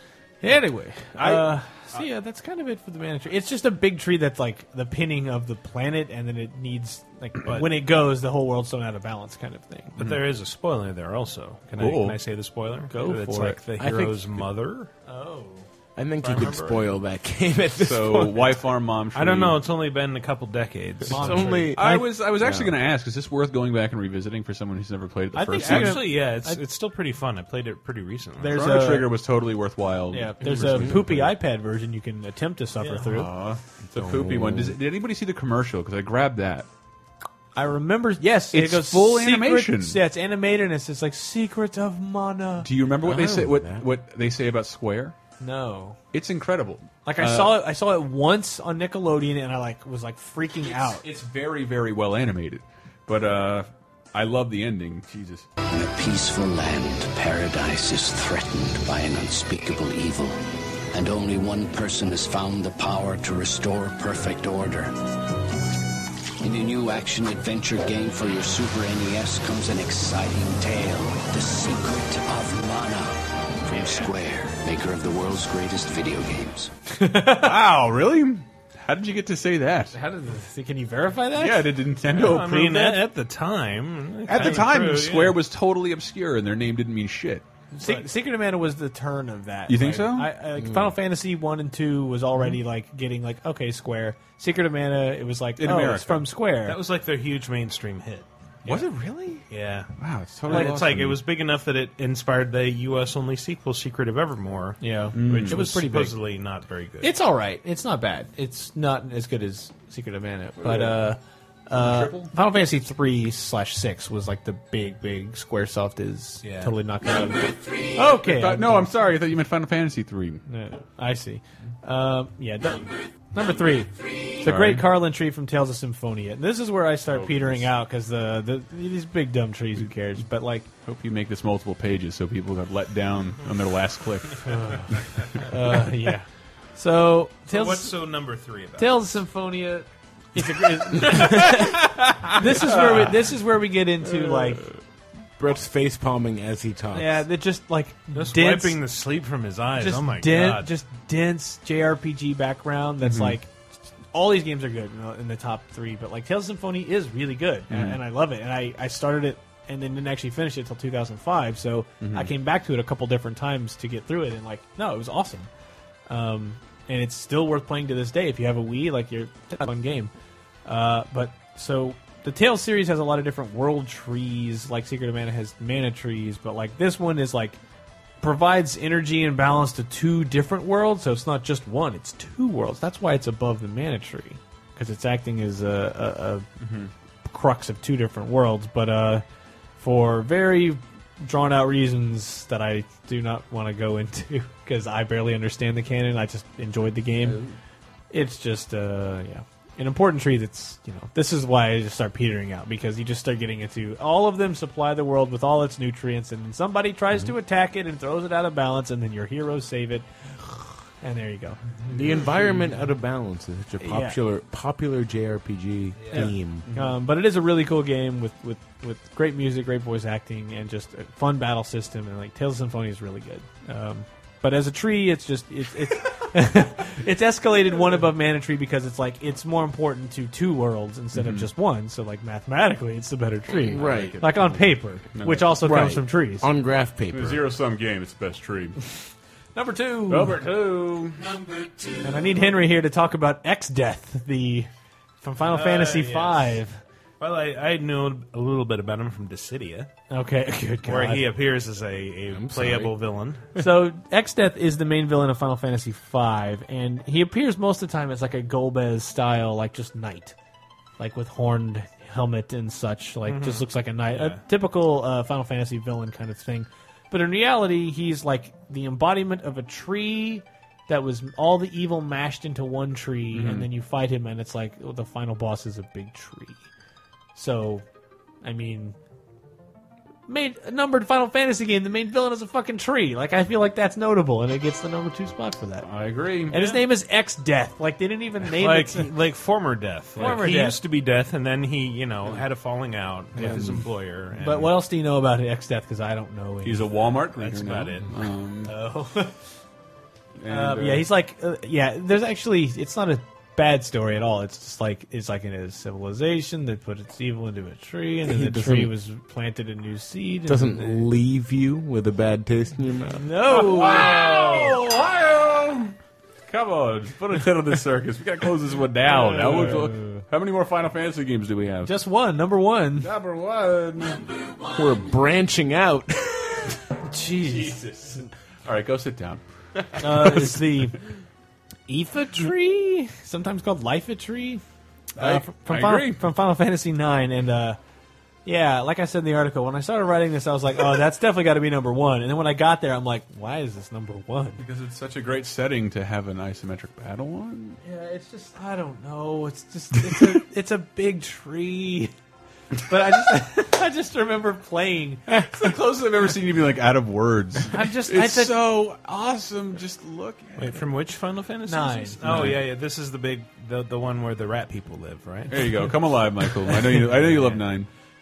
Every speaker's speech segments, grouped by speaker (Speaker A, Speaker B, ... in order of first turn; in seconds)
Speaker A: 0.4-10.0, 12.9-13.6, 15.1-15.7, 16.2-16.9, 21.1-21.8, 25.3-26.6, 28.4-29.1, 30.1-33.3, 37.5-42.7, 45.4-46.0, 47.0-51.0, 77.0-77.5, 79.9-81.8, 82.5-83.0, 87.8-96.8, 98.7-99.3, 100.5-100.8, 104.8-106.2, 107.0-118.9, 120.5-130.7, 134.4-137.9, 138.8-144.7, 146.9-148.8, 149.8-153.5, 154.1-165.5, 166.1-170.1, 170.7-177.6, 178.2-186.5, 187.2-189.2, 189.8-197.4, 198.1-211.6, 213.8-214.2, 216.1-236.5, 239.5-240.4, 242.0-244.7, 245.2-246.8, 250.1-251.3, 253.6-260.4, 261.0-276.7, 277.3-277.8, 278.4-278.9, 280.3-285.9, 286.5-289.1, 290.2-290.8, 293.4-293.6, 294.4-296.9, 298.7-299.4, 300.5-311.1, 313.1-314.8, 319.1-320.2, 321.8-323.1, 327.1-327.8, 330.0-331.0, 331.9-334.6, 335.2-337.8, 338.4-344.6, 347.8-352.1, 352.8-355.3, 357.7-358.6, 361.7-362.6
Speaker B: 9.9-14.9, 19.1-21.7, 25.5-28.6, 82.1-85.4, 87.8-88.0, 96.6-98.3, 99.5-99.9, 100.4-107.1, 116.4-116.7, 137.5-139.1, 148.1-150.7, 245.4-246.6, 247.2-249.9, 250.8-253.5, 263.2-264.4, 288.4-294.7, 297.4-298.1, 360.6-365.9, 366.7-367.6
Speaker C: 11.8-12.2, 17.8-19.6, 21.7-26.0, 28.5-31.3, 33.0-36.7, 38.5-40.0, 42.6-45.1, 46.1-47.6, 50.6-55.5, 77.3-80.0, 81.3-82.9, 84.3-87.5, 89.7-90.3, 95.6-96.3, 98.7-99.1, 100.0-101.2, 105.1-105.6, 110.6-111.0, 111.7-112.3, 118.0-120.4, 124.4-124.9, 127.1-127.7, 130.8-135.4, 142.5-143.3, 153.0-153.4, 157.7-158.0, 162.0-162.3, 186.6-186.9, 197.2-197.5, 216.7-217.0, 231.1-231.5, 233.7-234.6, 235.1-235.8, 237.1-238.8, 240.1-241.2, 273.3-273.7, 285.8-286.6, 290.2-290.5, 296.6-298.7, 300.4-301.1, 313.5-315.9, 316.5-321.9, 323.0-324.2, 327.4-329.4, 330.0-330.7, 335.2-336.2, 344.6-347.8, 355.4-360.9, 362.2-362.6, 365.5-367.9
Speaker D: 13.8-14.4, 15.9-18.6, 21.1-22.8, 30.4-31.2, 33.8-34.8, 43.0-43.9, 90.6-90.9, 145.4-147.2, 211.9-216.7, 233.6-234.3, 235.6-237.4, 252.3-252.9, 308.2-308.9, 310.5-313.2, 324.7-326.7
Speaker E: 55.7-60.4, 60.9-64.9, 66.4-76.7